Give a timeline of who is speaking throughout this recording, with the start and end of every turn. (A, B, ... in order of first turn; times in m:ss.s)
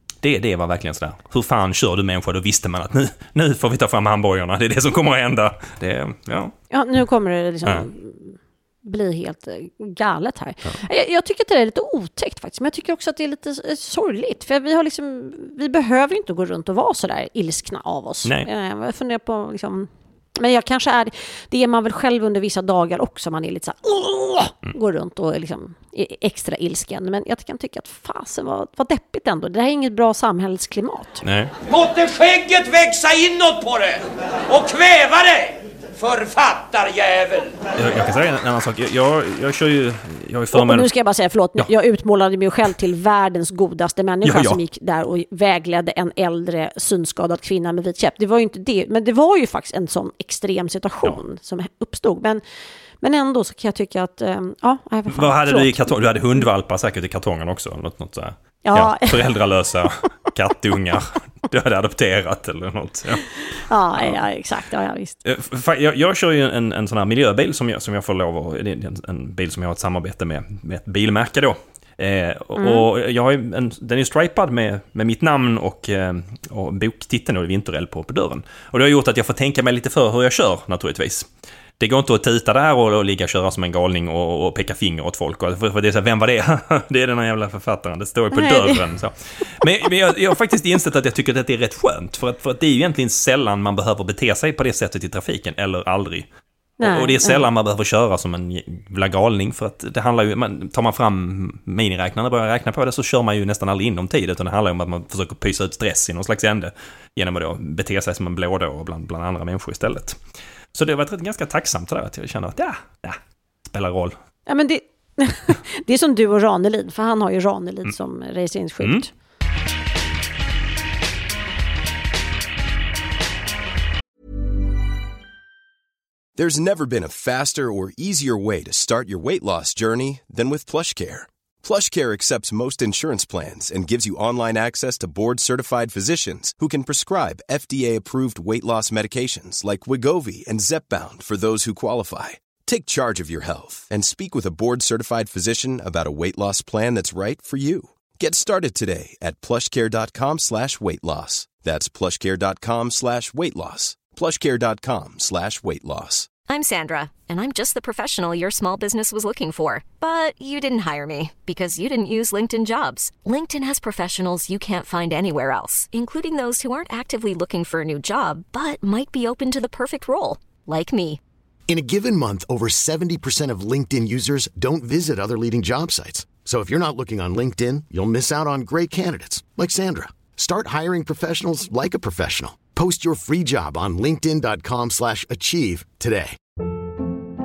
0:00.2-0:06.5 A
0:06.7-0:31.2 B
0:31.2-0:31.5 A
0:31.6-0:37.6 C
0:37.8-0:40.9 A
0:40.5-0:52.4 B
0:44.2-0:44.6 A
0:53.0-0:56.0 B
0:55.1-1:03.3 A
0:58.6-0:59.3 B
1:03.7-1:05.2 B
1:05.2-1:21.3 A
1:12.6-1:12.8 B
1:21.8-1:36.3 A
1:28.3-1:28.8 B
1:36.8-1:37.4 B
1:36.8-1:50.2 A
1:50.7-1:54.2 A
1:54.5-1:59.1 B
2:06.4-2:36.3 D
2:36.5-2:51.2 E
2:51.7-3:06.4 F